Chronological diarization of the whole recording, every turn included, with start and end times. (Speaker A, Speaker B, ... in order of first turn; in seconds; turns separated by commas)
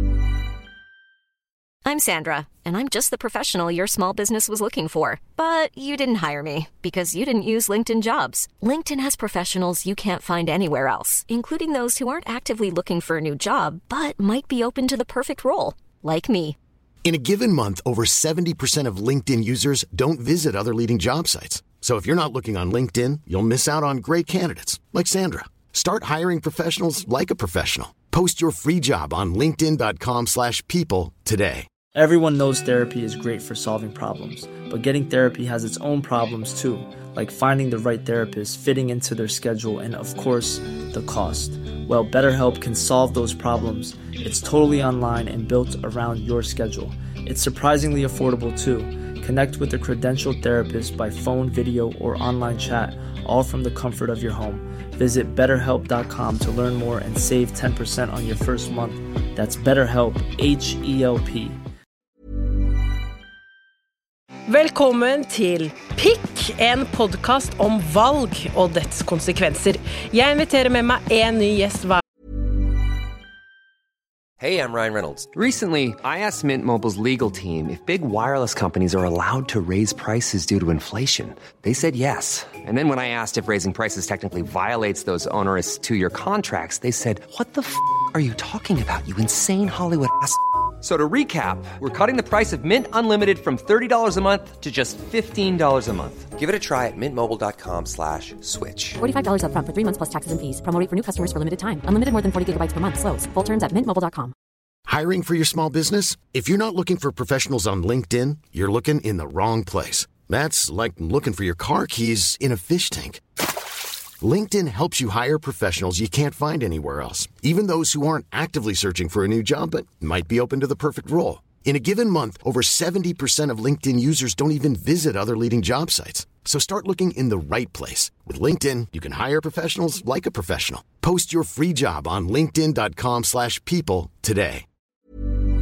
Speaker A: 1.8-16.6, Speaker B: 17.0-31.6, Speaker C: 31.9-61.6, Speaker D: 64.5-72.0, Speaker E: 74.4-99.0, Speaker F: 99.0-104.3, Speaker B: 104.9-113.2, Speaker B: 114.2-134.6